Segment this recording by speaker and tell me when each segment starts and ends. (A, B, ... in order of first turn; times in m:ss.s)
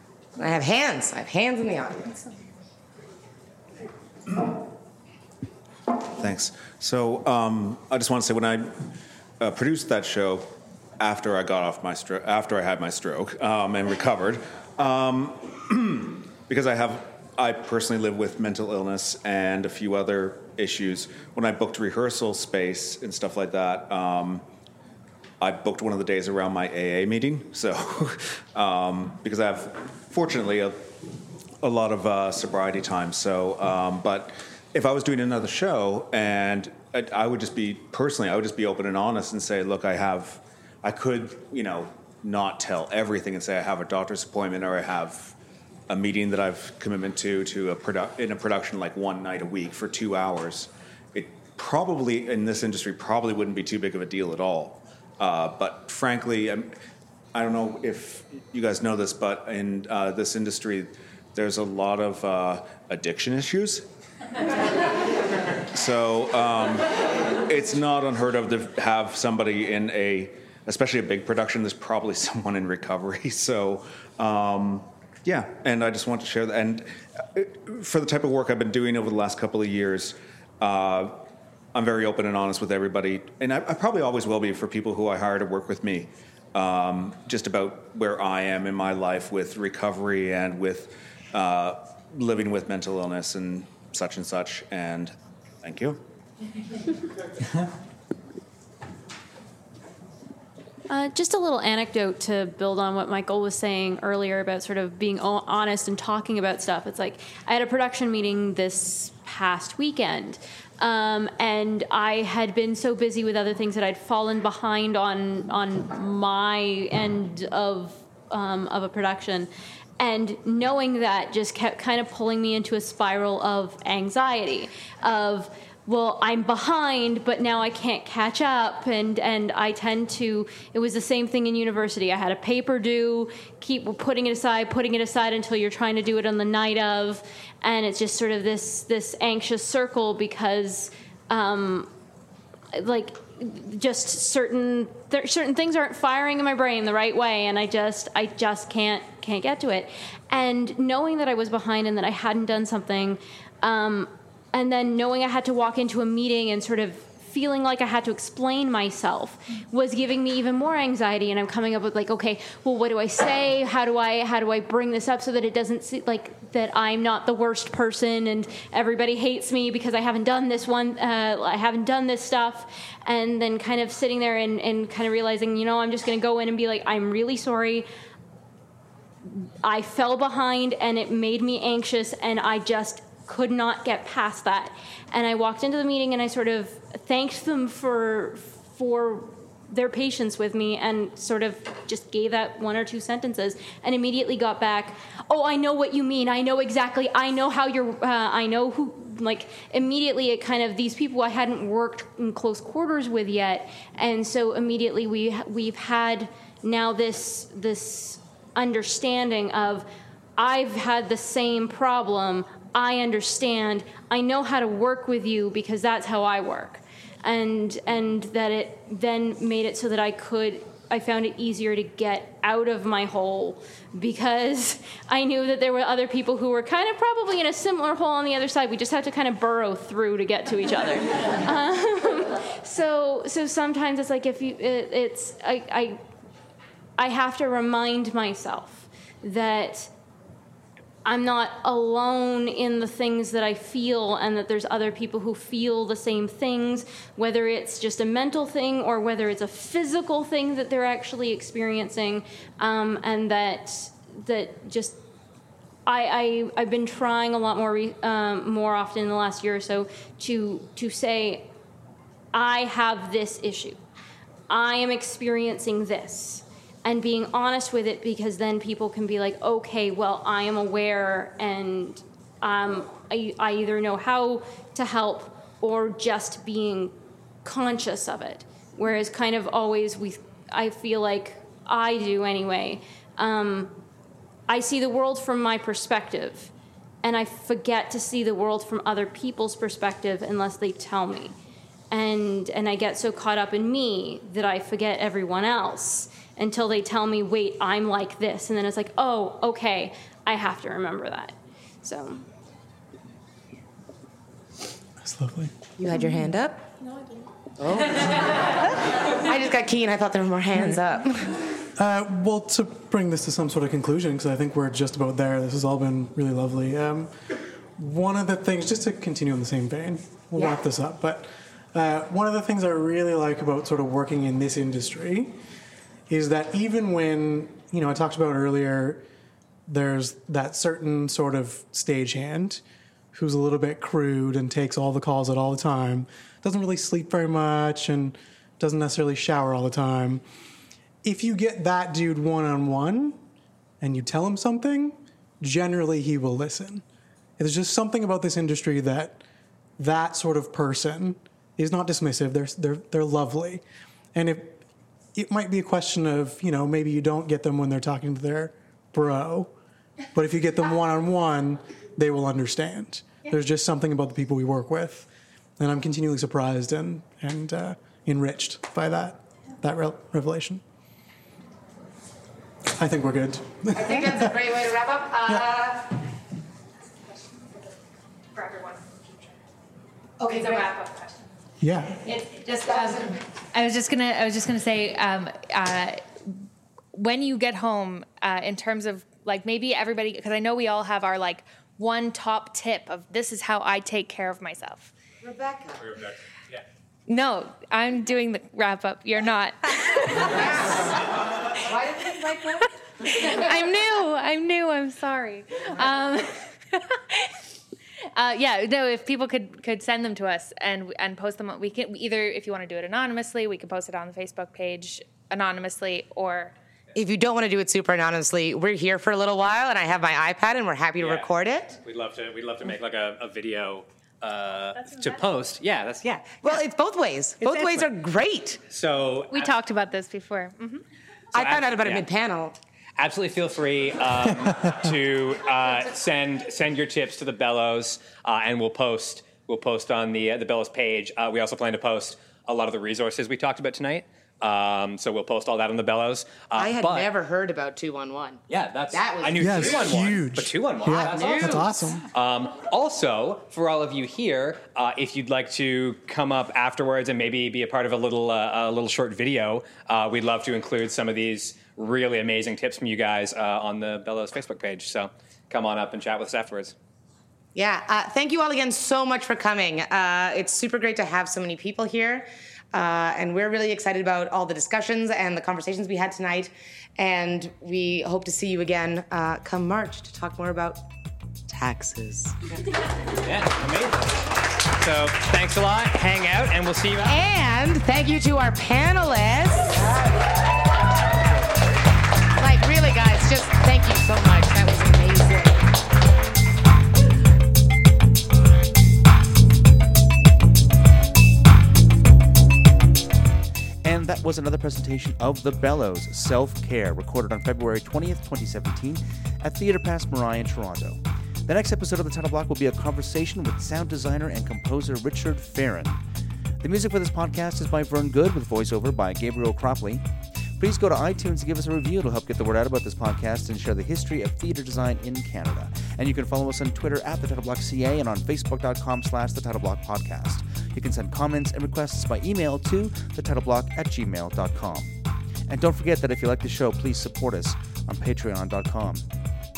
0:00.4-0:02.2 A
0:06.2-0:08.8 B
0:09.4-0:10.5 B
0:11.0-0:24.4 B
0:25.4-0:30.9 B
0:31.6-0:45.3 B
0:45.9-0:56.7 B
0:57.3-1:03.8 B
1:05.7-1:21.2 B
1:21.7-1:36.0 B
1:40.9-2:21.9 C
2:22.7-2:57.8 C
2:59.2-3:56.0 C
3:57.0-3:59.9 C
4:01.0-4:15.0 C
4:15.8-4:21.5 C
4:22.3-4:23.8 C
4:24.5-4:43.8 C
4:44.5-4:46.5 C
4:47.0-4:51.3 C
4:51.9-5:02.2 C
5:05.0-5:05.6 D
5:05.8-5:06.7 A
5:07.6-5:11.4 A
5:10.5-5:10.8 D
5:11.8-5:17.1 D
5:17.8-5:25.4 D
5:26.1-5:29.0 D
5:29.7-5:32.6 D
5:33.1-5:40.2 D
5:41.0-5:43.2 D
5:43.8-5:46.8 D
5:47.4-5:49.2 D
5:49.8-5:53.6 D
5:54.1-5:54.6 D
5:55.1-5:59.5 D
6:00.1-6:10.6 D
6:12.8-6:14.4 D
6:13.7-6:15.9 A
6:18.3-6:19.1 E
6:20.2-6:21.2 E
6:20.2-6:20.7 A
6:21.6-6:22.0 D
6:22.0-6:26.1 E
6:26.9-6:34.9 E
6:35.2-6:35.8 A
6:35.8-6:36.6 F
6:37.1-6:40.9 E
6:41.9-6:42.4 A
6:42.2-6:47.3 E
6:48.1-6:56.5 E
6:56.9-7:01.8 A
7:01.0-7:01.3 F
7:01.8-7:06.5 F
7:04.8-7:05.2 E
7:06.3-7:08.6 A
7:07.4-7:07.9 F
7:08.7-7:09.6 F
7:09.3-7:10.8 E
7:11.3-7:12.6 A
7:11.4-7:12.1 F
7:13.0-7:27.1 F
7:26.5-7:28.4 A
7:28.5-7:46.7 F
7:28.9-7:30.0 A
7:29.4-7:32.0 D
7:30.8-7:31.7 A
7:47.5-8:00.8 A
8:01.5-8:02.4 A
8:03.2-8:07.2 F
8:07.0-8:10.1 A
8:12.4-8:15.7 A
8:23.8-8:36.0 G
8:36.6-8:40.0 G
8:40.6-8:54.9 G
8:55.5-8:59.0 G